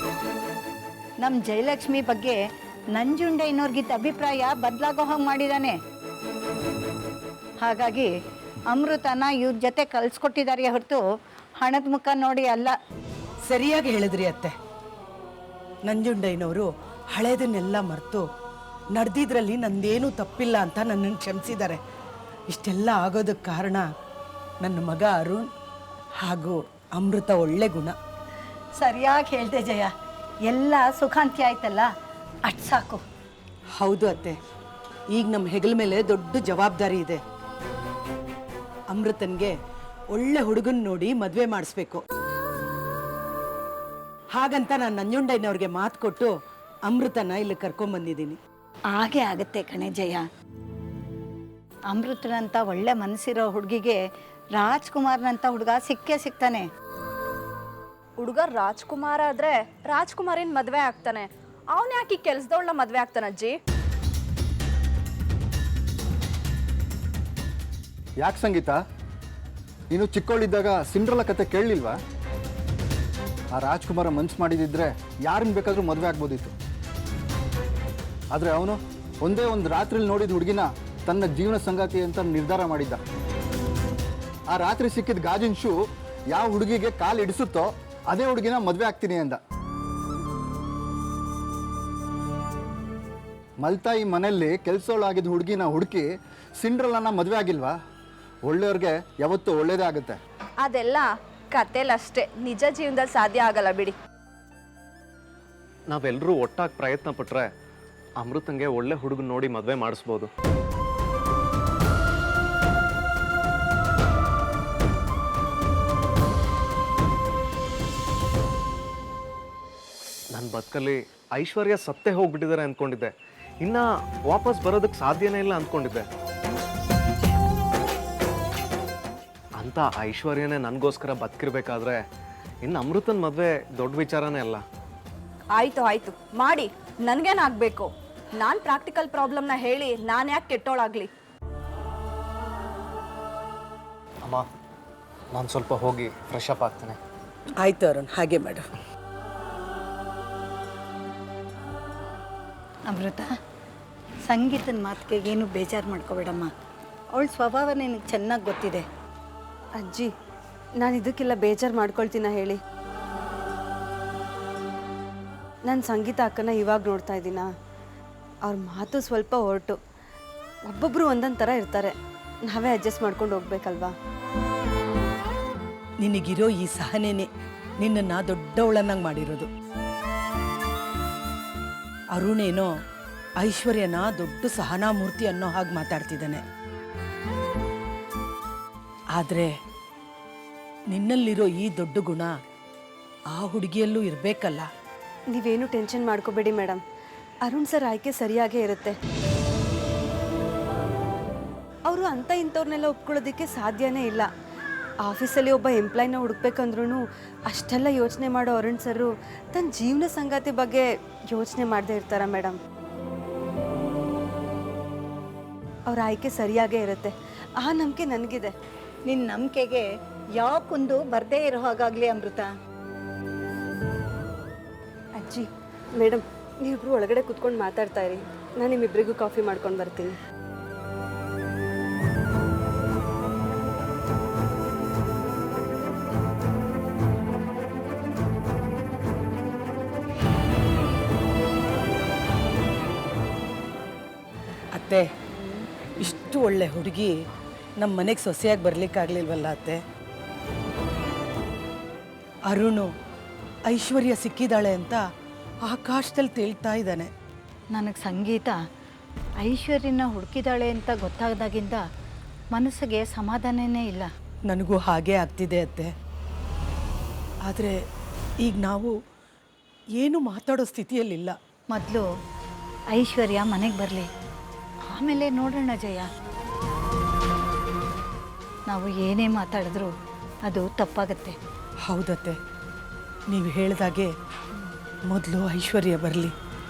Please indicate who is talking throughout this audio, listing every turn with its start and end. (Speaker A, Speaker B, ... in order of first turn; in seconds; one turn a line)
Speaker A: 1.2-2.4
Speaker A: 2.9-5.8
Speaker A: 7.6-8.1
Speaker A: 8.7-11.0
Speaker A: 11.6-12.7
Speaker B: 13.5-14.5
Speaker B: 15.8-18.2
Speaker B: 18.9-21.8
Speaker B: 22.5-23.9
Speaker B: 24.6-25.5
Speaker B: 26.2-27.9
Speaker A: 28.8-29.9
Speaker A: 30.5-31.9
Speaker A: 32.5-33.0
Speaker B: 33.8-34.4
Speaker B: 35.1-37.2
Speaker B: 38.9-39.5
Speaker B: 40.1-42.0
Speaker B: 44.3-46.3
Speaker B: 46.9-48.4
Speaker A: 49.0-50.2
Speaker A: 51.9-54.0
Speaker A: 54.6-56.6
Speaker C: 58.2-63.5
Speaker D: 68.2-68.8
Speaker D: 69.9-72.0
Speaker D: 73.5-76.5
Speaker D: 78.3-83.0
Speaker D: 84.5-85.7
Speaker D: 86.3-89.4
Speaker D: 93.6-96.0
Speaker D: 96.6-97.7
Speaker D: 98.5-100.2
Speaker C: 100.6-104.0
Speaker E: 105.9-107.4
Speaker E: 108.2-110.3
Speaker E: 120.3-123.1
Speaker E: 123.6-126.0
Speaker E: 129.6-132.0
Speaker E: 132.7-134.6
Speaker C: 135.5-141.1
Speaker E: 145.3-147.0
Speaker B: 147.6-148.6
Speaker A: 152.9-153.3
Speaker A: 154.3-156.5
Speaker A: 157.1-158.8
Speaker F: 159.8-160.1
Speaker F: 160.8-162.6
Speaker F: 165.7-167.5
Speaker F: 168.4-169.8
Speaker F: 170.7-171.9
Speaker F: 172.4-173.9
Speaker B: 176.0-177.3
Speaker B: 177.8-179.5
Speaker B: 182.1-182.7
Speaker B: 183.4-186.4
Speaker B: 189.1-189.5
Speaker B: 190.9-192.3
Speaker B: 193.3-194.7
Speaker F: 195.3-196.8
Speaker F: 197.4-198.9
Speaker F: 201.9-204.3
Speaker F: 205.0-212.6
Speaker F: 215.9-218.5
Speaker A: 219.1-219.8
Speaker A: 220.4-222.5
Speaker F: 225.2-230.2
Speaker B: 244.7-245.1
Speaker B: 246.0-247.1
Speaker B: 247.8-249.8
Speaker B: 252.5-252.9
Speaker B: 253.7-255.0
Speaker B: 255.6-257.1
Speaker A: 257.7-258.6
Speaker A: 259.4-261.8
Speaker A: 262.5-264.1
Speaker B: 264.5-265.9
Speaker B: 267.4-267.7
Speaker B: 268.4-268.9
Speaker B: 270.0-271.3
Speaker A: 271.7-272.1
Speaker A: 272.9-274.1
Speaker A: 274.9-276.1
Speaker A: 278.7-279.9
Speaker A: 280.5-281.4
Speaker B: 281.9-282.4
Speaker B: 283.3-284.1
Speaker B: 285.1-286.3